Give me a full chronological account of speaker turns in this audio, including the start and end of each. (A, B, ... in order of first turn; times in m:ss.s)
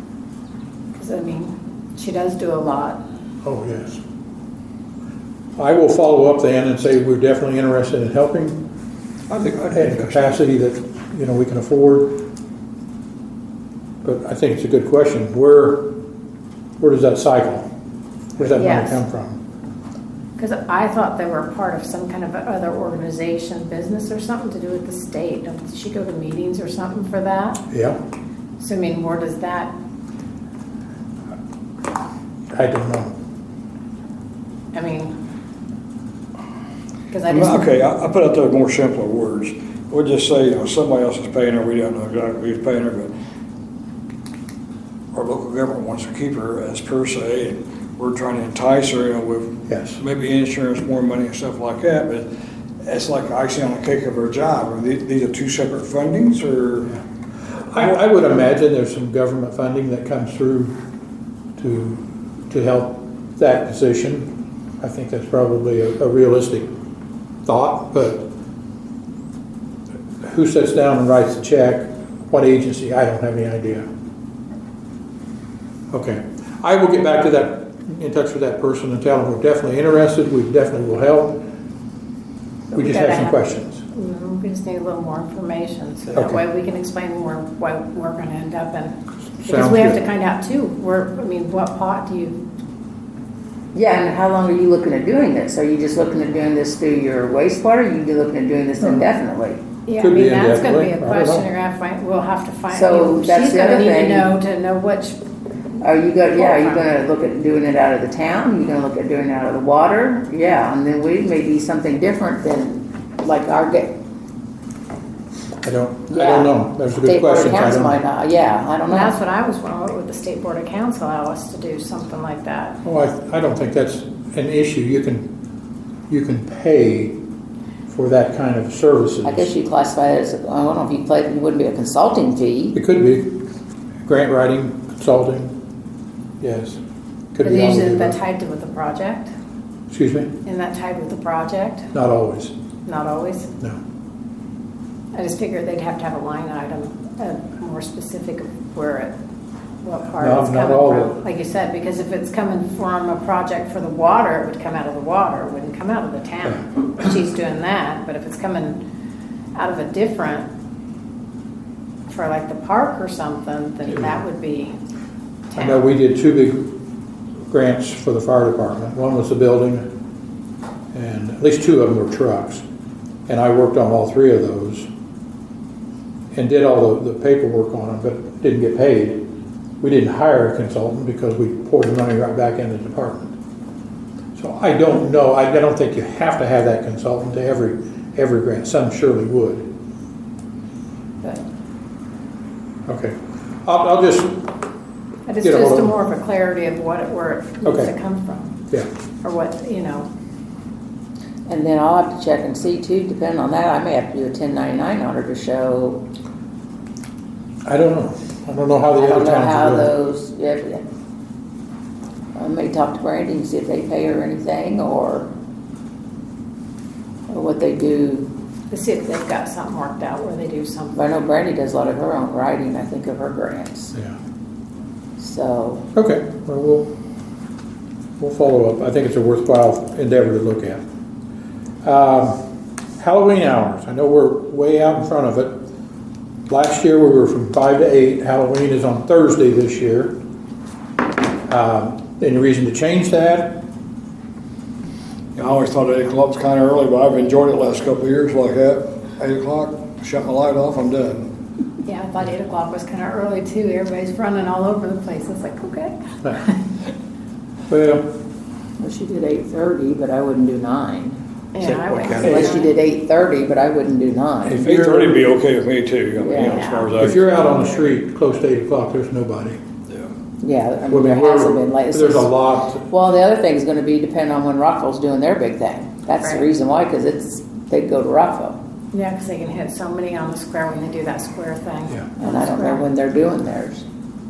0:00.9-0:03.0 A
0:03.4-0:04.0 B
0:05.6-0:08.6 B
0:09.3-0:10.3 C
0:09.6-0:12.3 B
0:14.0-0:16.0 B
0:16.8-0:17.7 B
0:18.4-0:19.4 B
0:18.5-0:19.0 A
0:20.4-0:27.6 A
0:27.7-0:28.0 B
0:28.6-0:29.7 A
0:32.5-0:33.1 B
0:34.7-0:35.1 A
0:37.1-0:37.7 A
0:37.3-0:43.1 C
0:45.1-0:52.3 C
0:49.7-0:50.0 B
0:52.8-0:57.0 C
0:57.6-1:00.8 B
1:01.6-1:06.7 B
1:07.4-1:08.3 B
1:10.2-1:13.9 B
1:15.9-1:21.4 B
1:22.7-1:23.4 A
1:22.7-1:23.8 B
1:23.9-1:32.4 A
1:26.1-1:26.4 B
1:29.4-1:30.0 B
1:33.7-1:39.6 D
1:38.8-1:39.1 B
1:39.8-1:45.2 A
1:40.0-1:41.5 B
1:42.7-1:44.3 D
1:45.8-1:54.0 D
1:46.4-1:46.9 A
1:55.6-1:58.0 B
1:56.1-1:59.1 D
1:58.9-2:02.8 A
2:02.8-2:05.3 B
2:06.1-2:07.2 B
2:07.9-2:09.5 B
2:09.2-2:12.8 D
2:12.7-2:13.4 B
2:14.0-2:15.5 B
2:16.4-2:16.8 B
2:17.3-2:18.2 B
2:17.4-2:19.3 A
2:19.9-2:20.3 B
2:20.4-2:21.9 A
2:21.9-2:22.5 B
2:22.8-2:23.5 A
2:25.1-2:29.1 A
2:29.8-2:38.8 A
2:30.2-2:31.2 B
2:39.5-2:40.5 A
2:42.1-2:44.8 A
2:45.5-2:45.8 A
2:45.6-2:46.8 B
2:47.5-2:49.9 B
2:50.9-2:52.6 B
2:53.3-2:54.9 B
2:56.3-2:59.3 B
2:59.8-3:03.3 B
3:04.3-3:09.7 B
3:12.9-3:14.5 B
3:15.3-3:18.5 A
3:15.4-3:15.9 B
3:17.6-3:17.9 B
3:19.2-3:20.1 A
3:21.5-3:26.0 D
3:27.6-3:29.9 B
3:29.0-3:30.8 D
3:32.4-3:35.3 D
3:37.3-3:38.3 D
3:38.7-3:41.0 A
3:40.9-3:43.9 D
3:45.2-3:45.9 D
3:45.9-3:46.9 B
3:48.2-3:50.8 B
3:51.8-3:52.4 B
3:53.0-3:55.6 B
3:56.5-4:00.2 B
4:01.5-4:03.6 B
4:05.3-4:11.3 C
4:11.8-4:16.4 A
4:17.7-4:18.1 B
4:18.8-4:21.2 D
4:21.5-4:22.7 A
4:21.7-4:22.6 C
4:22.1-4:24.7 D
4:24.4-4:25.2 B
4:24.6-4:27.6 C
4:26.2-4:26.6 D
4:26.3-4:27.0 A
4:27.0-4:29.6 B
4:30.4-4:32.3 D
4:30.9-4:32.8 B
4:32.9-4:38.6 D
4:38.9-4:42.8 A
4:42.2-4:43.8 D